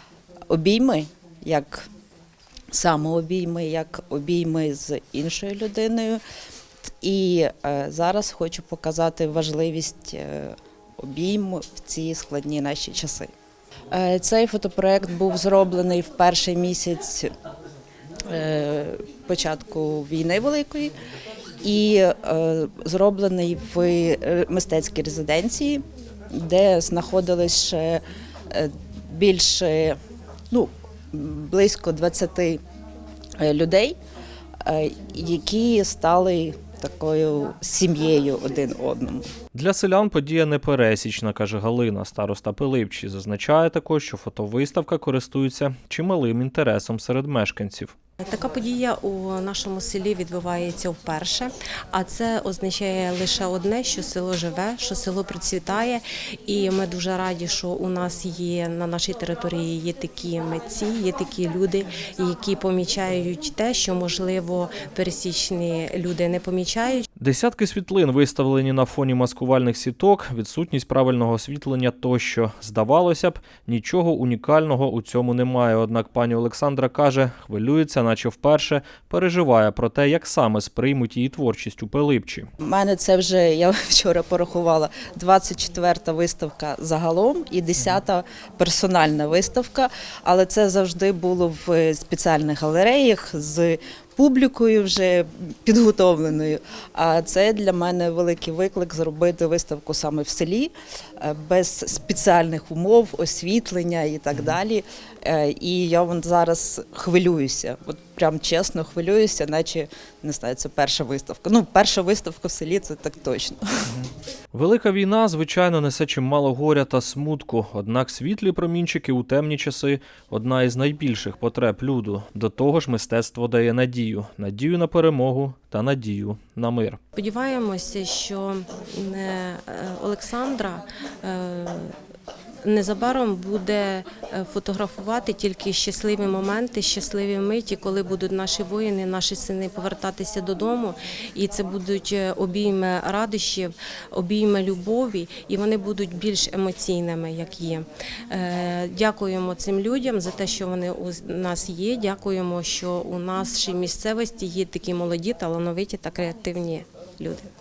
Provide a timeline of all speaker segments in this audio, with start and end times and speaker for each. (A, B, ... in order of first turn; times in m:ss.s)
0:00.5-0:01.9 A
0:02.7-0:06.2 A
0:07.0-0:13.3 A
0:13.9-0:17.3 A
0:18.2-0:20.9 A
0:21.6-0:30.0 A
0:30.5-0:32.6 A
0:33.4-0:34.0 A
0:34.6-0:39.3 A
0:39.5-0:48.0 B
0:48.2-1:07.1 C
1:07.2-1:22.5 B
1:22.6-1:53.9 A
1:54.0-2:07.0 B
2:07.2-2:12.0 C
2:12.6-2:37.5 C